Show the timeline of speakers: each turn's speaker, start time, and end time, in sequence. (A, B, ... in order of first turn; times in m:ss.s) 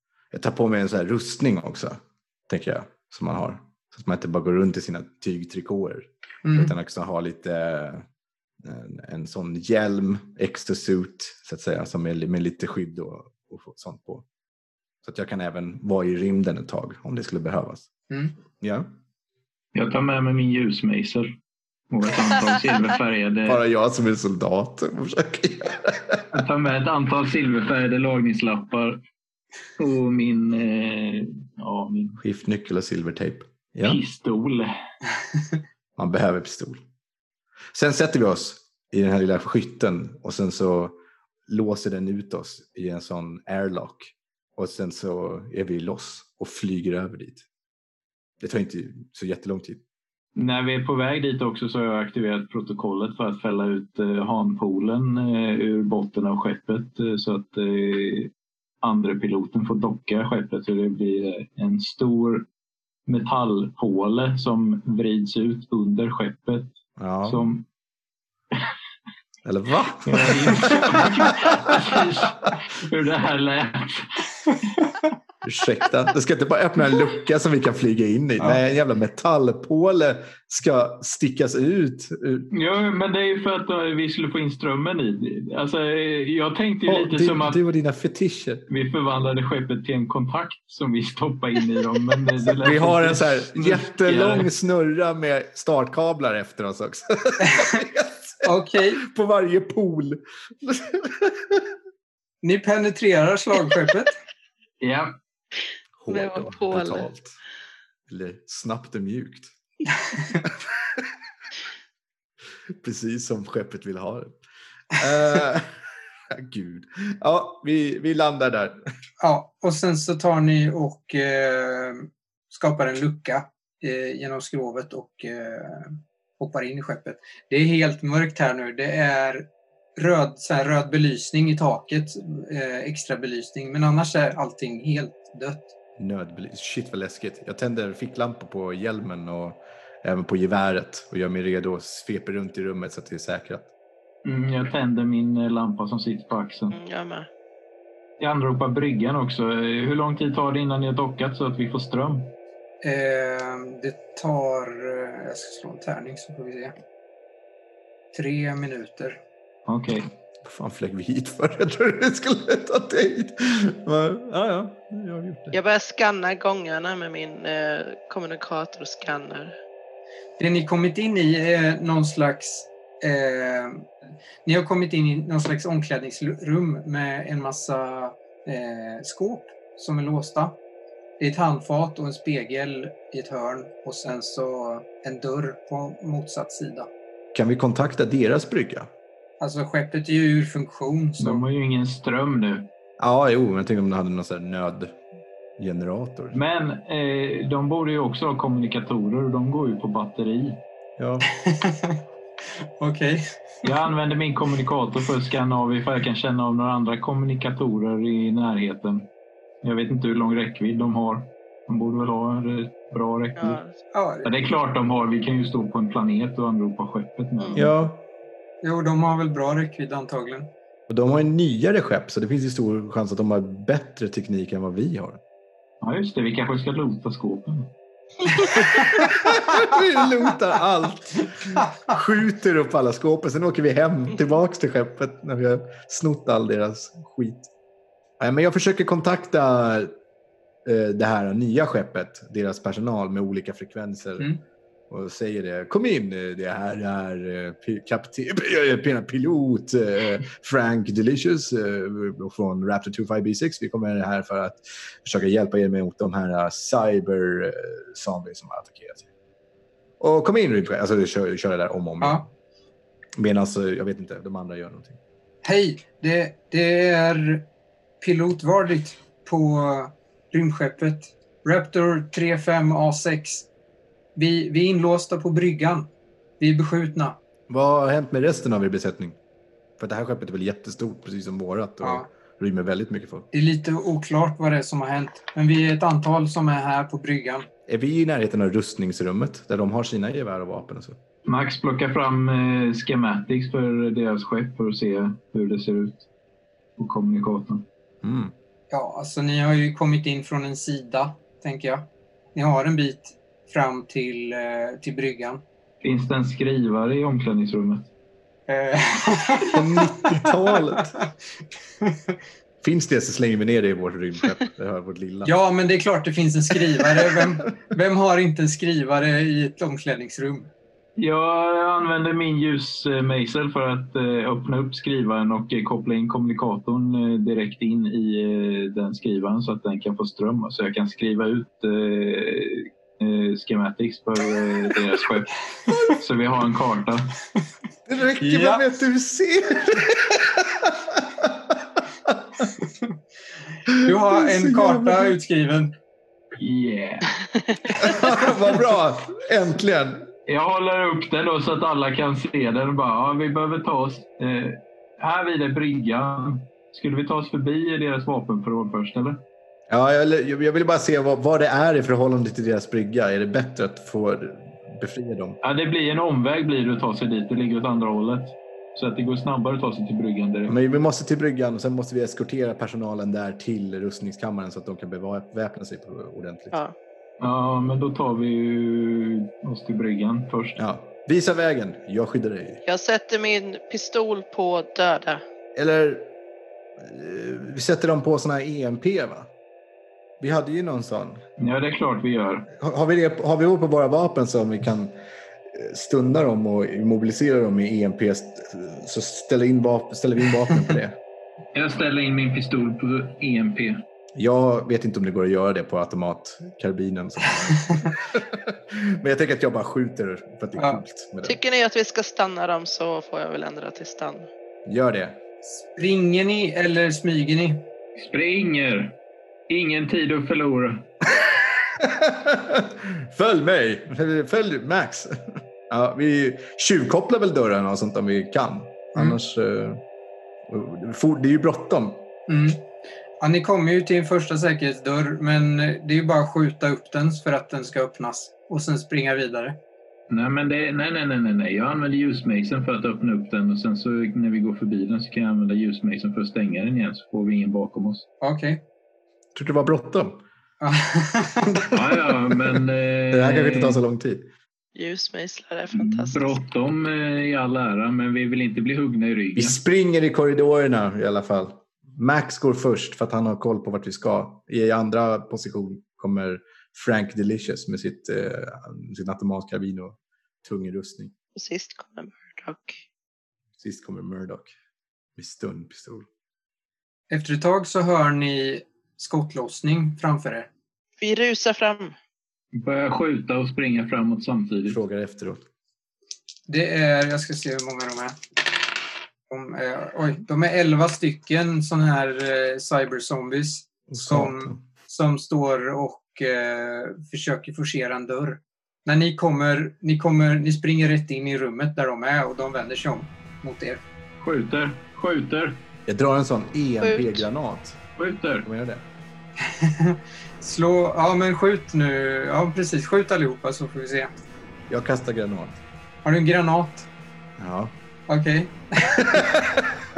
0:00.3-0:08.0 A
0:06.4-0:06.7 B
0:08.6-0:14.2 A
0:15.0-0:17.9 A
0:18.6-0:18.9 A
0:19.7-0:21.3 C
0:21.9-0:23.6 C
0:23.4-0:26.2 A
0:26.3-0:29.0 C
0:29.8-0:32.2 C
0:32.2-0:34.0 A
0:33.8-0:34.7 C
0:36.0-0:36.8 A
0:37.7-0:41.0 A
0:41.5-0:47.4 A
0:48.4-0:49.8 A
0:50.3-1:02.5 C
1:03.0-1:06.7 C
1:07.0-1:07.5 A
1:07.2-1:07.6 C
1:09.4-1:12.0 A
1:10.0-1:14.2 C
1:15.4-1:22.5 A
1:22.5-1:27.6 C
1:26.8-1:28.6 A
1:28.7-1:34.5 C
1:32.4-1:41.7 A
1:38.4-1:39.0 B
1:42.4-1:44.1 B
1:44.8-1:45.1 C
1:46.0-1:47.4 A
1:46.1-1:47.0 D
1:48.1-1:49.5 A
1:50.4-1:51.0 A
1:52.8-1:54.3 A
1:54.9-1:55.7 A
1:56.3-1:58.8 A
1:59.2-2:15.7 B
2:16.0-2:23.7 A
2:24.2-2:26.8 C
2:26.7-2:27.3 D
2:28.2-2:32.3 C
2:32.8-2:36.7 B
2:38.1-2:39.2 B
2:39.7-2:40.1 C
2:40.4-2:45.6 A
2:45.5-2:49.5 D
2:50.4-2:53.9 B
2:54.4-3:00.6 B
3:01.2-3:06.9 B
3:07.3-3:08.9 A
3:09.4-3:11.4 B
3:11.2-3:12.7 C
3:13.0-3:15.0 A
3:15.6-3:16.4 A
3:16.3-3:20.6 C
3:21.0-3:21.3 A
3:21.3-3:22.0 B
3:22.8-3:23.6 B
3:23.6-3:29.1 C
3:29.6-3:33.6 C
3:33.4-3:33.8 D
3:33.9-3:34.5 B
3:34.2-3:37.7 C
3:37.4-3:37.6 D
3:37.5-3:38.0 A
3:38.6-3:40.5 B
3:40.9-3:45.2 A
3:45.8-3:47.7 C
3:48.8-3:57.5 A
3:58.2-3:59.9 A
4:00.6-4:04.3 A
4:04.9-4:19.1 A
4:20.0-4:22.3 A
4:23.2-4:25.0 A
4:25.4-4:27.4 B
4:28.0-4:33.4 B
4:34.2-4:35.9 B
4:36.4-4:37.2 B
4:37.5-4:39.2 A
4:39.8-4:43.3 A
4:43.3-4:47.5 B
4:47.7-4:51.0 A
4:51.2-4:56.0 C
4:56.8-4:57.6 C
4:58.0-4:58.3 A
4:58.7-5:05.4 B
5:05.8-5:07.9 C
5:08.5-5:10.3 B
5:09.5-5:11.0 A
5:12.6-5:15.3 A
5:15.2-5:20.5 B
5:21.0-5:37.1 C
5:37.9-5:41.4 A
5:38.2-5:38.6 B
5:43.7-5:45.1 A
5:43.8-5:45.7 B
5:46.4-5:47.1 C
5:47.7-5:50.1 A
5:50.3-5:59.2 C
5:59.7-6:05.4 A
6:05.4-6:10.5 C
6:10.5-6:16.6 A
6:17.2-6:20.6 C
6:20.6-6:22.6 A
6:22.6-6:25.2 D
6:25.6-6:26.1 A
6:26.8-6:29.3 A
6:30.2-6:31.2 A
6:31.4-6:32.5 C
6:32.5-6:35.0 A
6:35.5-6:41.0 A
6:41.5-6:43.8 C
6:44.1-6:51.4 A
6:51.2-6:54.3 D
6:54.6-6:55.2 A
6:55.4-6:57.6 B
6:58.0-6:59.0 C
6:59.5-7:00.9 C
7:01.8-7:09.8 A
7:10.5-7:12.0 A
7:12.3-7:12.6 B
7:13.2-7:19.6 B
7:20.1-7:28.0 C
7:28.2-7:28.6 B
7:29.3-7:30.2 A
7:30.6-7:31.6 B
7:31.6-7:32.1 A
7:31.7-7:33.8 C
7:33.1-7:34.3 A
7:34.7-7:36.4 D
7:35.7-7:39.6 C
7:39.4-7:51.1 A
7:51.4-7:52.8 D
7:53.6-7:54.5 A
7:55.2-7:56.1 A
7:57.1-8:00.5 B
8:01.0-8:01.9 D
8:02.5-8:04.8 C
8:04.6-8:05.4 A
8:06.5-8:08.2 B
8:09.3-8:23.8 B
8:13.9-8:14.6 A
8:24.2-8:25.6 C
8:25.9-8:27.8 A
8:26.8-8:27.2 D
8:28.0-8:28.4 C
8:28.4-8:28.8 A
8:29.4-8:34.1 B
8:34.7-8:35.6 A
8:36.0-8:36.9 B
8:37.4-8:37.7 A
8:38.1-8:39.2 B
8:39.0-8:39.7 A